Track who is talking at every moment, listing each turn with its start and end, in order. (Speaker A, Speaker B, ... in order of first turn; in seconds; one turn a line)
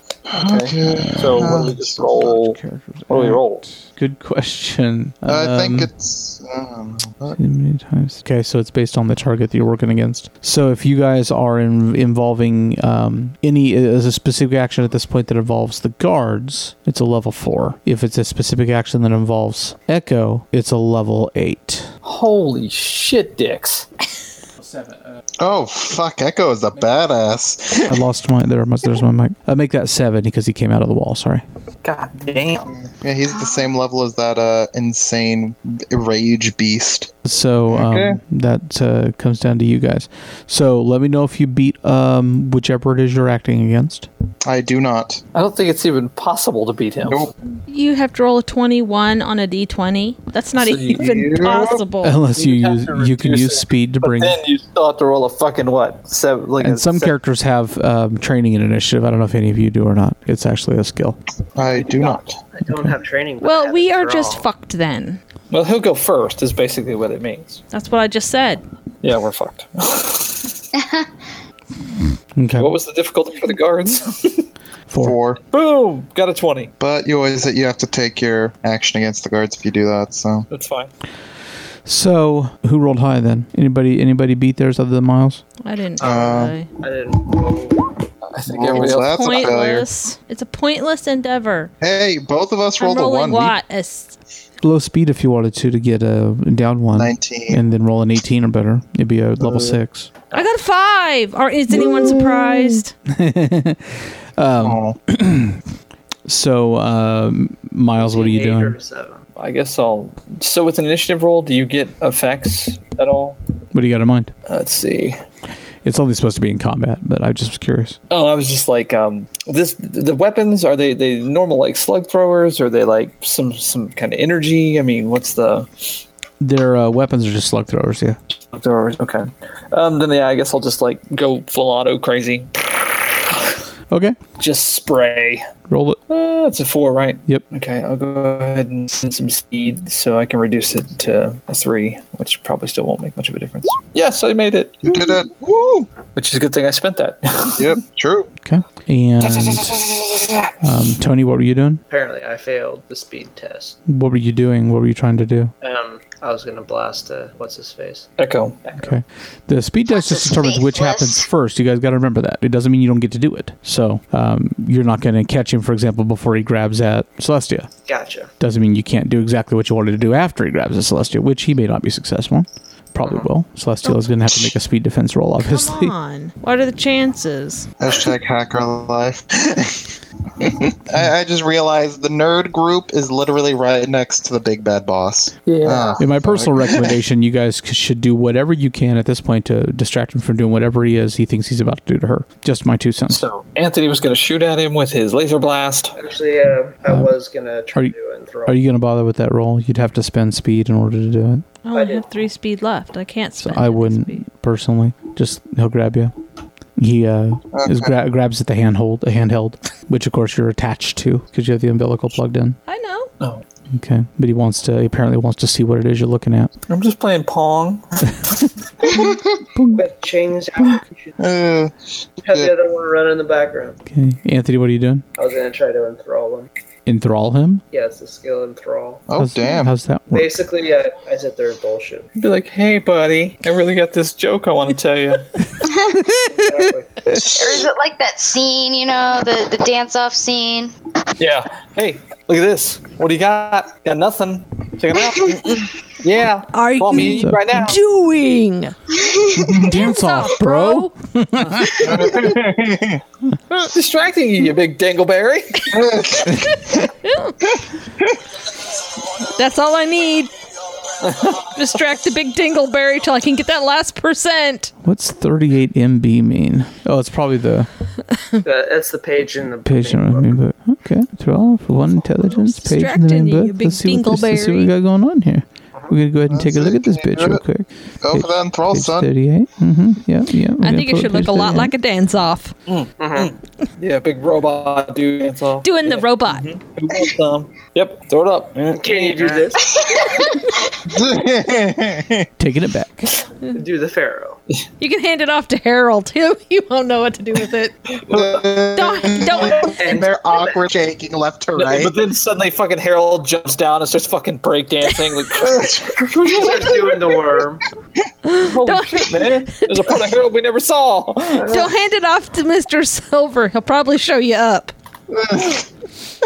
Speaker A: 0.3-2.0
Speaker B: 0.3-3.6
Speaker C: 0.8-5.9
Speaker A: 5.3-7.4
Speaker C: 7.4-21.9
Speaker B: 22.0-23.9
Speaker C: 24.6-25.2
Speaker A: 25.4-28.0
Speaker C: 27.9-31.4
Speaker B: 31.8-32.7
Speaker A: 32.6-37.1
Speaker C: 37.2-44.1
Speaker A: 37.7-38.2
Speaker A: 44.5-45.2
Speaker B: 45.3-47.3
Speaker A: 47.1-47.3
Speaker D: 47.7-52.2
Speaker B: 50.6-51.2
Speaker A: 50.9-51.8
Speaker C: 52.0-54.4
Speaker B: 52.3-57.1
Speaker C: 56.6-61.2
Speaker A: 61.5-62.4
Speaker E: 61.8-64.5
Speaker D: 63.4-65.2
Speaker B: 65.5-67.6
Speaker D: 67.7-68.6
Speaker B: 69.0-70.5
Speaker C: 72.4-72.7
Speaker B: 72.5-74.5
Speaker C: 74.9-75.2
Speaker A: 75.0-75.4
Speaker B: 75.5-76.7
Speaker A: 76.8-80.5
Speaker B: 80.5-80.9
Speaker C: 81.9-85.4
Speaker D: 85.6-86.7
Speaker A: 86.0-86.6
Speaker E: 86.0-87.9
Speaker B: 88.3-89.5
Speaker A: 88.5-89.9
Speaker D: 89.0-91.7
Speaker A: 91.8-93.5
Speaker D: 92.8-94.2
Speaker C: 94.6-100.1
Speaker A: 97.0-97.6
Speaker A: 99.4-99.8
Speaker D: 100.3-102.9
Speaker C: 103.1-105.6
Speaker A: 104.6-105.0
Speaker C: 106.3-108.8
Speaker E: 108.0-109.2
Speaker B: 109.4-113.4
Speaker C: 113.7-114.3
Speaker B: 114.5-115.2
Speaker C: 115.8-118.0
Speaker B: 118.1-126.0
Speaker C: 126.4-128.2
Speaker B: 128.5-133.6
Speaker C: 133.9-134.2
Speaker B: 134.4-135.5
Speaker C: 135.7-136.0
Speaker B: 136.1-145.0
Speaker A: 144.8-145.9
Speaker B: 146.2-147.8
Speaker A: 147.6-148.3
Speaker C: 148.4-149.8
Speaker B: 149.2-150.5
Speaker C: 150.6-151.8
Speaker E: 151.9-153.8
Speaker C: 153.9-155.5
Speaker E: 155.6-158.1
Speaker B: 158.2-158.7
Speaker C: 158.8-167.7
Speaker F: 159.9-161.3
Speaker E: 167.9-168.3
Speaker C: 168.4-175.9
Speaker D: 175.4-177.7
Speaker A: 177.8-186.9
Speaker B: 185.5-186.0
Speaker C: 186.0-193.2
Speaker B: 193.1-196.0
Speaker E: 196.0-198.6
Speaker C: 196.9-197.1
Speaker C: 198.5-201.5
Speaker D: 201.6-204.2
Speaker E: 201.7-202.1
Speaker C: 203.4-206.1
Speaker C: 206.8-212.6
Speaker A: 207.5-207.9
Speaker D: 212.7-213.1
Speaker C: 213.7-216.5
Speaker B: 216.7-218.4
Speaker C: 219.6-219.8
Speaker E: 219.7-221.2
Speaker A: 221.2-222.5
Speaker E: 222.2-223.8
Speaker C: 223.9-225.1
Speaker E: 225.2-226.5
Speaker C: 226.9-227.6
Speaker E: 227.7-229.1
Speaker A: 229.1-229.7
Speaker C: 229.2-230.3
Speaker E: 230.1-232.1
Speaker B: 232.2-235.3
Speaker E: 236.3-237.2
Speaker F: 237.2-240.7
Speaker B: 241.2-247.8
Speaker D: 246.5-248.8
Speaker C: 246.9-247.4
Speaker F: 249.1-249.5
Speaker A: 249.4-249.7
Speaker D: 249.6-250.9
Speaker C: 249.6-252.0
Speaker A: 251.8-253.0
Speaker B: 253.6-255.8
Speaker A: 255.7-256.6
Speaker D: 257.0-257.3
Speaker D: 259.2-260.3
Speaker B: 261.0-261.5
Speaker D: 261.4-264.7
Speaker C: 264.8-267.7
Speaker E: 268.4-270.4
Speaker C: 269.6-281.7
Speaker D: 272.3-274.7
Speaker A: 276.3-277.4
Speaker A: 278.0-279.1
Speaker D: 280.6-282.6
Speaker B: 282.7-289.6
Speaker E: 283.0-283.4
Speaker D: 285.6-286.5
Speaker E: 288.7-289.8
Speaker F: 289.9-290.4
Speaker A: 290.8-292.3
Speaker C: 292.4-293.1
Speaker E: 293.5-294.4
Speaker D: 294.8-297.8
Speaker B: 298.0-298.4
Speaker A: 298.1-301.9
Speaker D: 298.7-299.8
Speaker E: 299.6-300.6
Speaker B: 301.6-306.8
Speaker A: 305.5-306.4
Speaker E: 306.2-307.6
Speaker D: 308.2-309.9
Speaker B: 308.4-311.6
Speaker D: 311.4-314.7
Speaker A: 315.1-315.7